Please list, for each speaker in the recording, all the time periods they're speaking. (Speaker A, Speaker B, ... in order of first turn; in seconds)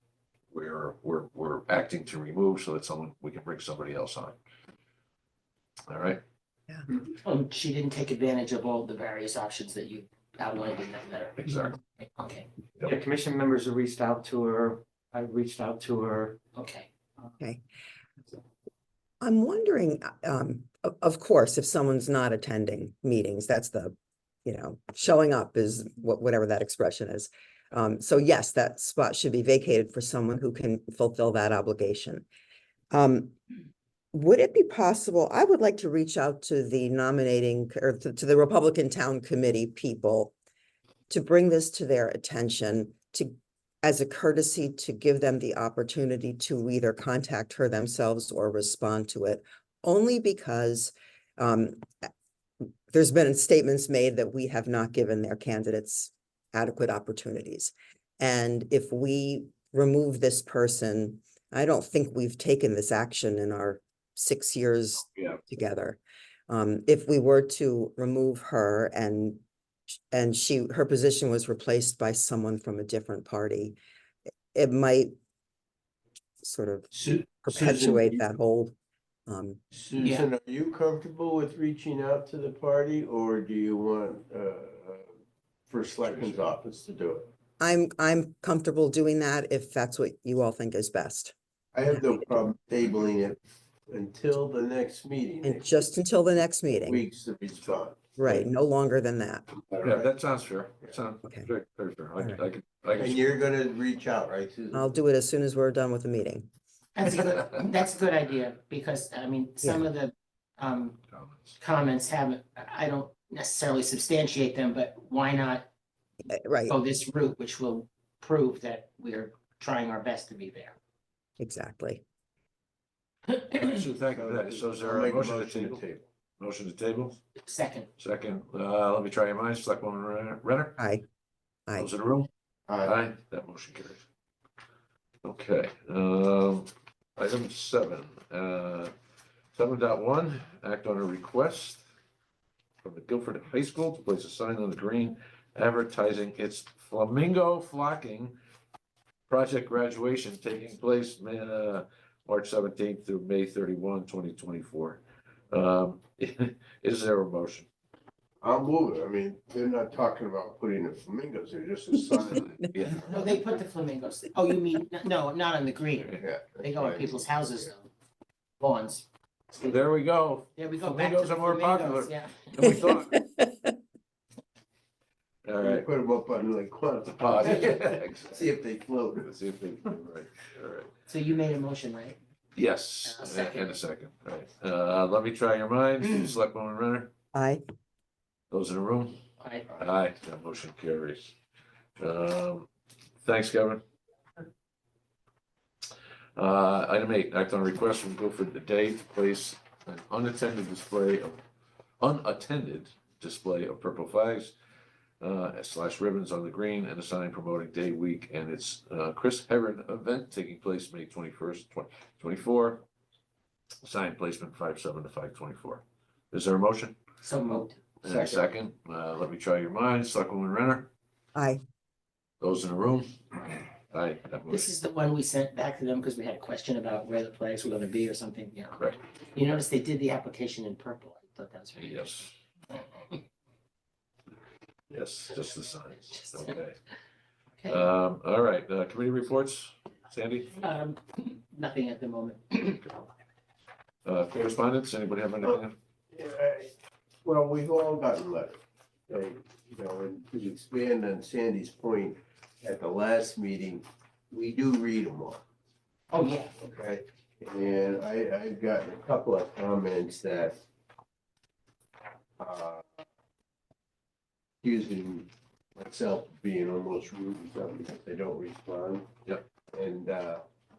Speaker A: 0.5-4.4, 5.9-6.2, 11.4-11.8, 65.2-65.4, 86.0-86.5, 99.8-103.3, 111.1-111.6, 123.5-125.8, 126.4-127.2, 128.0-130.8, 131.8-132.3, 132.8-134.0, 135.2-138.9, 139.5-141.8, 142.8-148.4, 149.3-155.0, 155.5-157.7, 162.1-163.4, 169.6-173.2, 175.4-175.9, 177.1-178.5, 179.2-180.9, 182.6-187.1, 188.5-191.2, 192.0-192.7, 193.2-193.8, 196.4-201.4, 202.0-204.5, 205.2-212.9, 213.8-217.0, 218.0-220.9, 222.4-223.3, 223.9-224.7, 231.8-232.3, 234.9-236.8, 237.7-240.6, 244.1-245.8
Speaker B: 7.2-11.4, 12.0-12.5, 16.6-16.9, 80.0-80.3, 107.0-111.0, 111.6-115.7, 116.7-120.8, 123.3-123.8, 127.4-127.9, 163.1-167.9, 168.6-169.8, 170.6-172.8, 181.1-182.2, 183.1-183.8, 189.4-189.7, 217.2-218.4, 224.5-228.8, 229.3-232.2, 240.6-242.9, 256.1-256.5
Speaker C: 12.8-16.4
Speaker D: 19.2-32.3, 32.9-33.4, 34.1-40.3, 41.1-52.1, 52.9-69.4, 70.1-73.8, 74.5-75.1, 76.4-76.9, 77.4-78.8, 79.3-79.6, 87.6-91.3, 95.4-97.0, 98.2-99.5, 101.2-101.5, 104.7-106.5, 116.3-116.8, 121.4-122.0, 130.8-131.0, 172.6-173.7, 187.3-187.6, 221.3-221.6
Speaker E: 76.9-78.1, 79.7-85.1, 85.7-87.3, 91.7-93.4, 93.9-95.8, 96.8-98.2, 99.7-100.1, 103.0-104.9, 124.1-126.0, 132.7-132.9, 158.4-162.5, 166.2-167.3, 175.6-179.3, 246.1-246.7, 247.2-255.4, 256.6-260.6, 262.4-262.9, 264.6-269.1, 269.7-270.4